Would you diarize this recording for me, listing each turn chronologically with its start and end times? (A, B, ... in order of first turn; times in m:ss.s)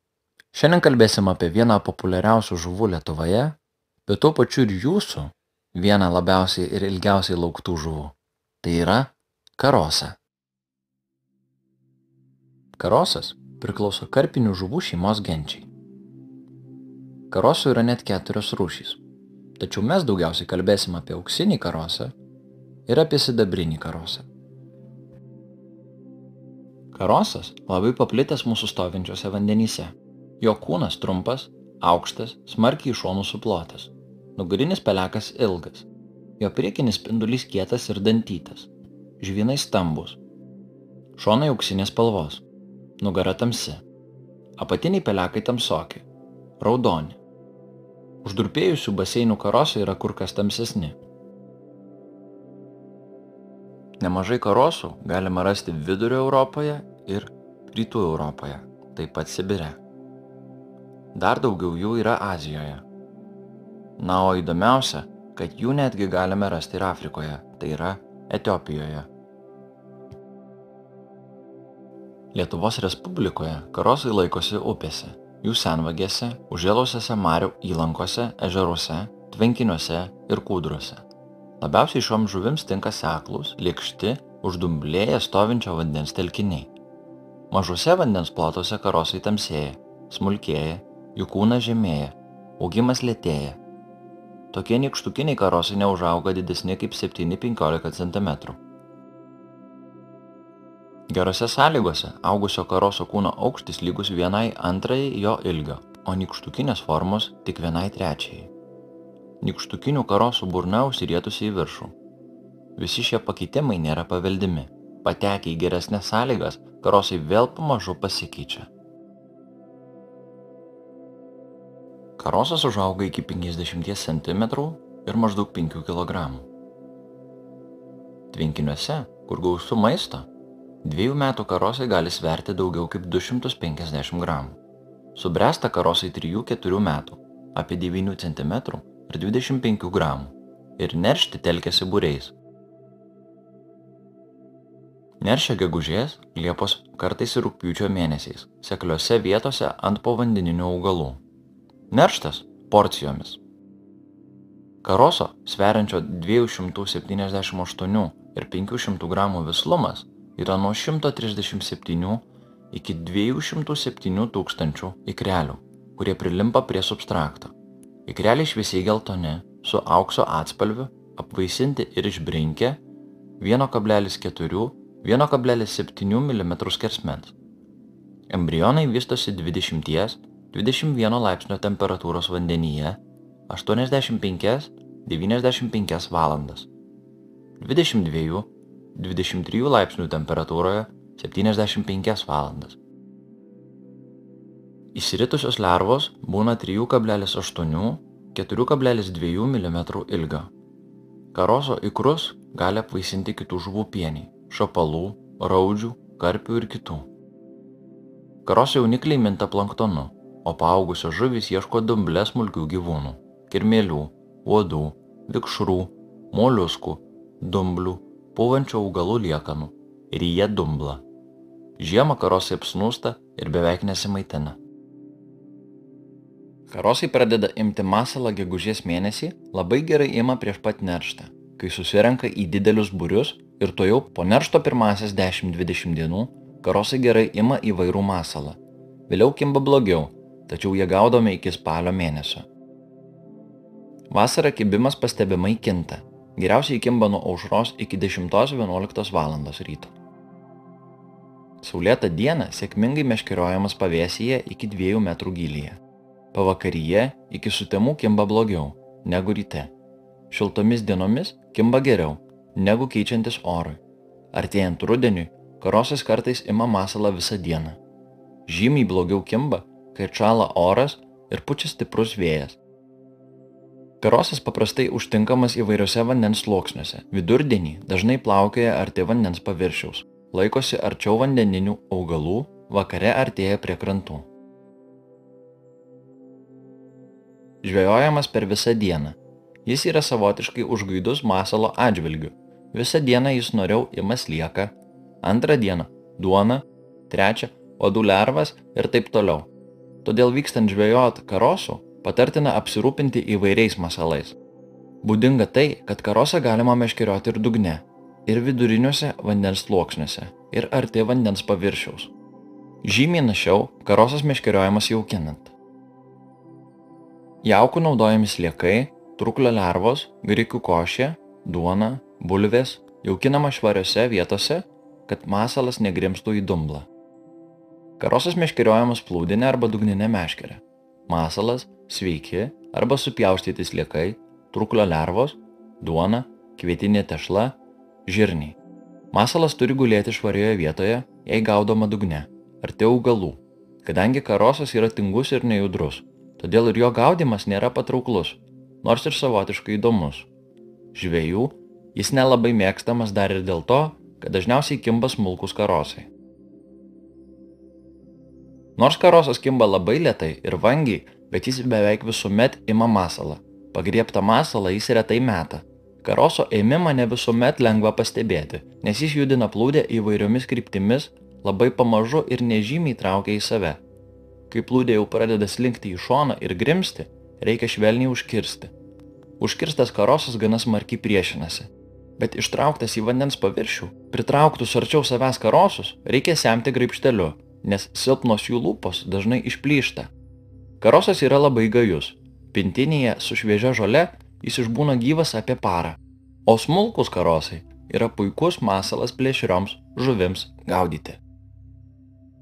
0:00.5-0:10.2 A
0:12.8-0:15.7 A
0:17.3-0:19.0 A
0:19.6-0:22.1 A
0:22.9-0:24.3 A
0:26.9-0:35.9 A
0:36.4-0:40.2 A
0:41.2-0:42.4 A
0:43.0-0:43.8 A
0:44.6-0:46.0 A
0:46.6-0:47.2 A
0:48.2-0:51.0 A
0:54.0-0:59.8 A
1:01.1-1:02.8 A
1:04.0-1:09.1 A
1:12.3-1:21.0 A
1:21.6-1:26.7 A
1:27.5-1:33.6 A
1:34.5-1:38.6 A
1:41.1-1:48.5 A
1:49.4-1:51.9 A
1:52.8-1:58.7 A
2:02.2-2:06.5 A
2:08.3-2:10.3 A
2:10.8-2:14.6 A
2:15.1-2:22.3 A
2:25.2-2:31.2 A
2:31.9-2:33.4 A
2:34.8-2:47.5 A
2:48.0-2:52.8 A
2:53.4-2:57.3 A
2:58.3-3:06.7 A
3:07.6-3:12.8 A
3:14.9-3:20.5 A
3:21.3-3:27.1 A
3:28.4-3:41.0 A
3:41.8-3:44.6 A
3:46.7-4:02.5 A
4:04.1-4:09.9 A
4:11.6-4:15.8 A
4:16.3-4:19.7 A
4:20.3-4:23.8 A
4:24.3-4:27.8 A
4:28.4-4:32.6 A
4:34.0-4:44.3 A
4:47.6-4:59.5 A
5:00.0-5:04.4 A
5:05.0-5:12.1 A
5:12.8-5:15.5 A
5:17.4-5:26.9 A
5:28.0-5:38.6 A
5:39.1-5:50.3 A
5:50.9-5:56.1 A
5:58.8-6:13.8 A
6:14.5-6:18.7 A
6:19.4-6:30.1 A
6:30.8-6:41.2 A